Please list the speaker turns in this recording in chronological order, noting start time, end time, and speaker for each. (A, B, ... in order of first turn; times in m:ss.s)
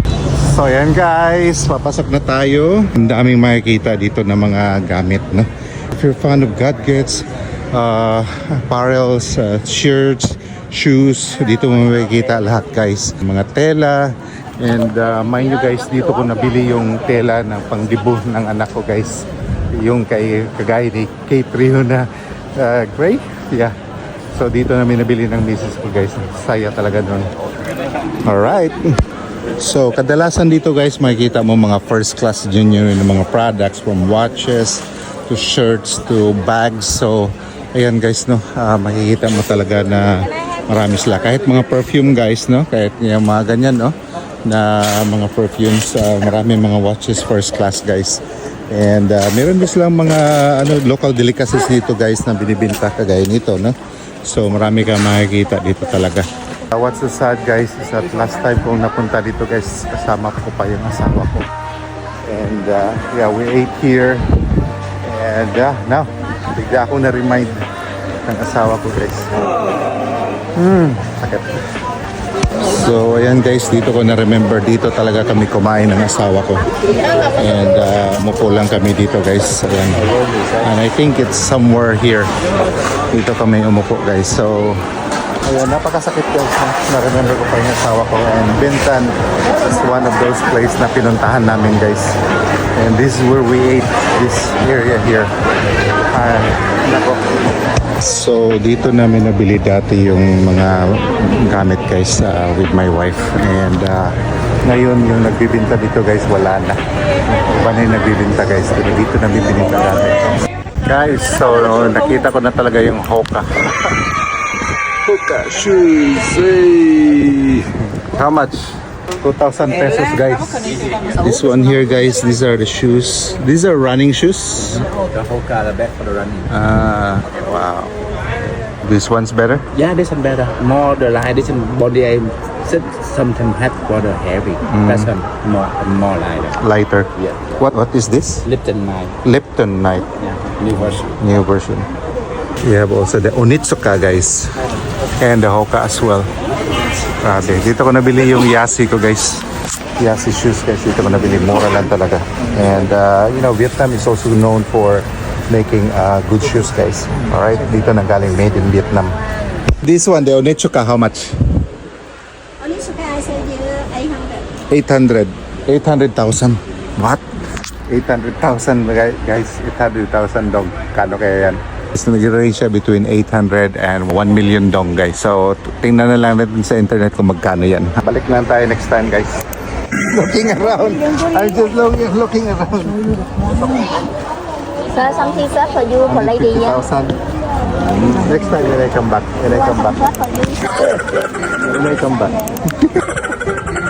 0:00.4-0:23.7 A
0:24.3-0:27.3 A
0:28.2-0:29.0 A
0:29.6-0:43.9 A
0:44.4-1:01.5 A
1:02.2-1:04.3 A
1:05.0-1:07.6 A
1:08.2-1:09.3 A
1:10.5-1:11.5 A
1:12.6-1:16.7 A
1:17.3-1:20.1 A
1:19.9-1:20.7 B
1:20.6-1:22.3 A
1:23.1-1:24.8 A
1:25.4-1:32.2 A
1:32.8-1:35.3 A
1:36.1-1:37.3 A
1:37.9-1:46.8 A
1:47.5-1:54.0 A
1:55.0-2:04.8 A
2:04.6-2:06.5 B
2:06.5-2:07.9 A
2:08.8-2:09.6 A
2:09.7-2:16.6 B
2:14.6-2:15.1 A
2:16.6-2:18.4 A
2:17.2-2:17.5 B
2:18.4-2:19.2 B
2:19.2-2:20.1 A
2:20.2-2:21.1 B
2:20.9-2:21.9 A
2:22.6-2:24.6 A
2:25.2-2:26.3 A
2:27.2-2:29.4 A
2:30.0-2:39.2 A
2:39.8-2:41.4 A
2:42.6-2:44.4 C
2:44.7-2:47.2 A
2:47.9-2:59.4 A
3:00.0-3:03.8 A
3:04.9-3:06.5 C
3:06.0-3:07.2 A
3:07.8-3:13.1 A
3:10.0-3:10.6 C